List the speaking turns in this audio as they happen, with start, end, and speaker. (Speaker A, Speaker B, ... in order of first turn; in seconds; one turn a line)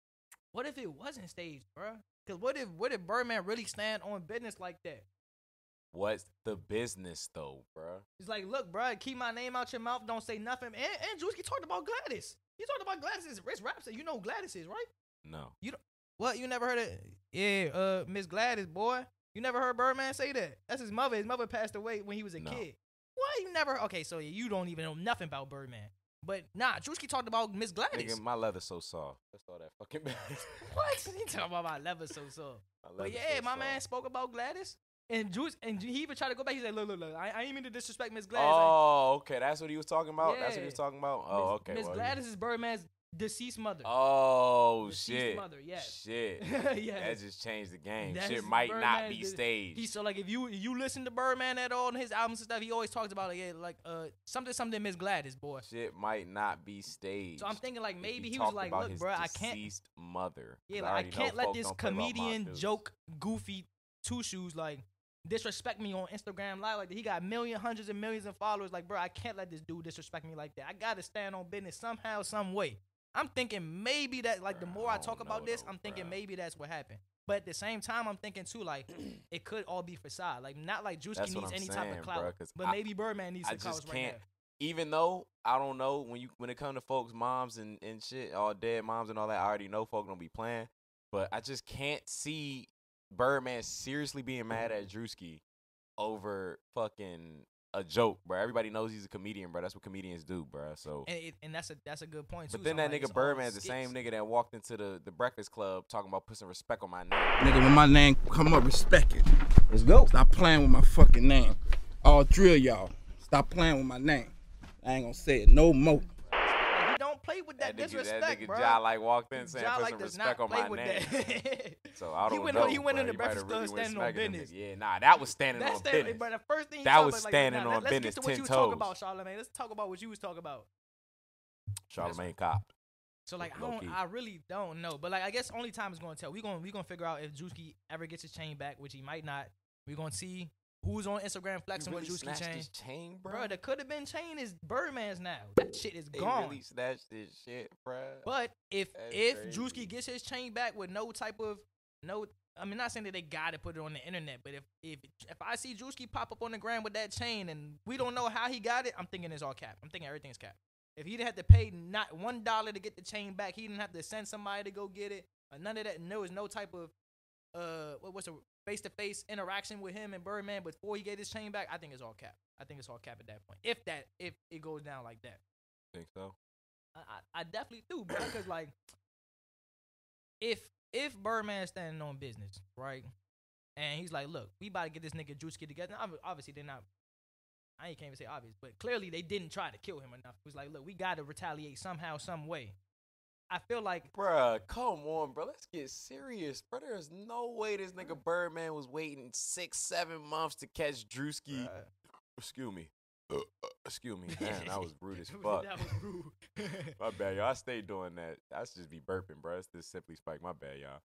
Speaker A: 0.5-5.0
Speaker B: 5.9-8.0
Speaker A: 8.2-14.9
Speaker B: 15.2-15.5
Speaker A: 15.6-28.2
Speaker B: 22.4-22.6
Speaker B: 27.9-30.7
Speaker A: 30.6-38.8
Speaker B: 32.8-33.8
Speaker B: 38.3-42.2
Speaker A: 40.2-43.9
Speaker B: 43.8-46.5
Speaker A: 44.9-47.2
Speaker B: 47.0-50.0
Speaker A: 48.0-55.6
Speaker B: 55.6-62.8
Speaker A: 57.4-59.6
Speaker A: 60.7-84.2
Speaker B: 74.5-76.2
Speaker B: 81.2-82.8
Speaker B: 83.4-95.4
Speaker B: 96.0-101.1
Speaker A: 101.1-103.9
Speaker B: 102.5-107.5
Speaker C: 107.4-114.3
Speaker C: 114.8-116.1
Speaker A: 116.6-118.8
Speaker B: 117.6-121.4
Speaker A: 119.3-124.5
Speaker B: 121.9-126.3
Speaker A: 125.5-130.7
Speaker B: 126.8-128.9
Speaker B: 131.9-132.7
Speaker A: 133.3-142.7
Speaker B: 133.4-134.0
Speaker B: 141.8-143.6
Speaker A: 143.3-146.6
Speaker B: 146.1-148.3
Speaker A: 148.2-166.9
Speaker B: 148.9-149.9
Speaker A: 167.5-175.4
Speaker B: 175.9-176.4
Speaker A: 176.9-178.8
Speaker A: 180.4-183.1
Speaker A: 183.8-186.8
Speaker A: 187.8-192.8
Speaker A: 193.5-194.1
Speaker B: 194.1-201.7
Speaker A: 201.5-201.9
Speaker B: 202.4-205.7
Speaker A: 204.3-206.9
Speaker B: 207.0-211.0